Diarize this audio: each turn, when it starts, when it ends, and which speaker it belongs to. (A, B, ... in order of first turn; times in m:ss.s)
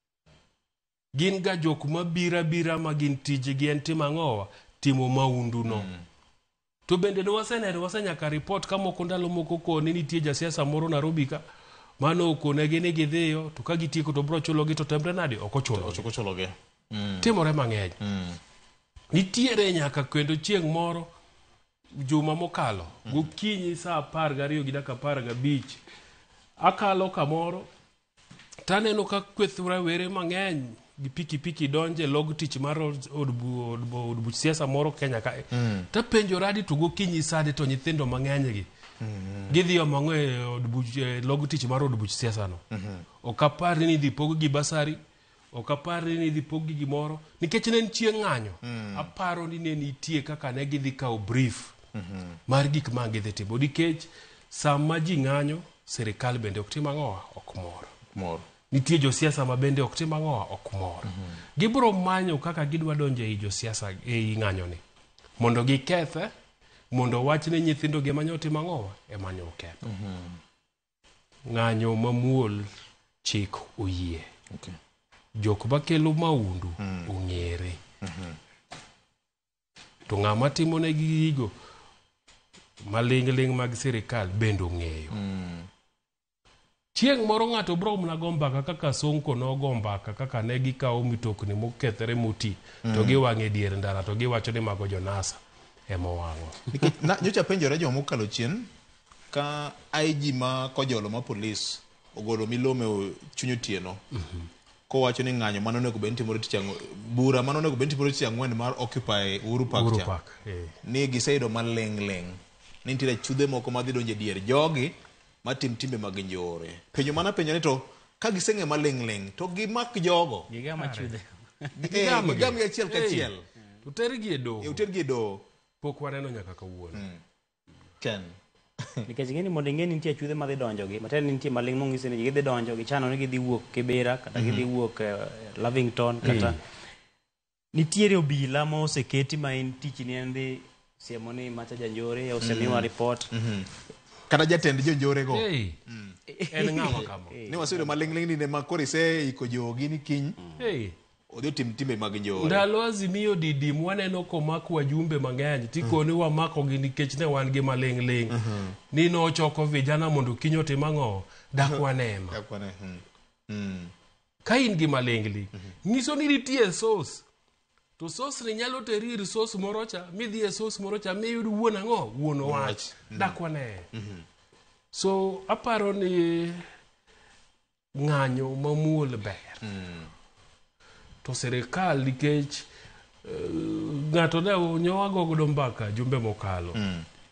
0:01.1-0:05.9 A
0:05.6-0:06.0 B
0:06.9-0:11.4 A
0:12.0-0:16.0 A
0:15.7-0:17.3 B
0:17.2-0:18.0 A
0:18.0-0:18.4 B
0:19.1-0:21.1 A
0:22.0-0:25.8 A
0:26.6-0:27.7 A
0:28.7-0:38.7 A
0:35.5-0:35.9 B
0:39.0-0:39.6 B
0:39.5-0:42.6 A
0:42.7-0:43.0 B
0:43.2-0:45.0 A
0:45.5-0:51.7 A
0:48.6-0:49.1 B
0:52.0-0:52.4 B
0:52.5-0:57.9 A
0:58.1-0:58.4 B
0:58.7-1:04.8 A
1:05.4-1:06.3 A
1:06.9-1:09.8 A
1:09.8-1:10.4 B
1:11.5-1:12.7 A
1:13.2-1:14.3 A
1:14.5-1:14.8 B
1:15.4-1:17.8 A
1:16.8-1:17.1 B
1:18.0-1:18.4 B
1:20.1-1:21.5 A
1:22.8-1:25.2 A
1:25.1-1:25.7 B
1:27.0-1:36.7 A
1:32.9-1:33.2 B
1:36.7-1:38.7 B
1:39.3-1:44.0 B
1:44.1-1:44.5 A
1:44.9-1:50.1 B
1:49.7-1:50.7 A
1:50.8-2:00.5 B
2:00.5-2:01.7 C
2:00.8-2:01.1 A
2:01.8-2:03.4 B
2:01.9-2:03.3 A
2:03.8-2:04.8 A
2:04.6-2:05.4 B
2:05.8-2:07.0 A
2:06.9-2:07.2 B
2:08.0-2:09.0 B
2:09.1-2:16.6 C
2:14.4-2:14.7 B
2:16.2-2:16.6 A
2:17.7-2:23.3 C
2:22.4-2:23.7 B
2:24.3-2:26.2 B
2:25.3-2:25.8 A
2:26.3-2:28.1 C
2:26.5-2:27.4 A
2:27.5-2:30.4 B
2:30.6-2:31.0 A
2:31.3-2:32.6 B
2:32.4-2:38.4 A
2:38.3-2:38.8 B
2:38.9-2:42.4 A
2:41.6-2:43.9 B
2:44.5-2:47.2 A
2:48.0-2:53.9 A
2:52.4-2:53.4 B
2:53.9-2:54.2 B
2:54.9-2:56.6 A
2:58.0-2:59.6 A
2:59.6-3:00.1 B
3:01.2-3:02.7 A
3:03.2-3:06.8 A
3:06.8-3:07.0 B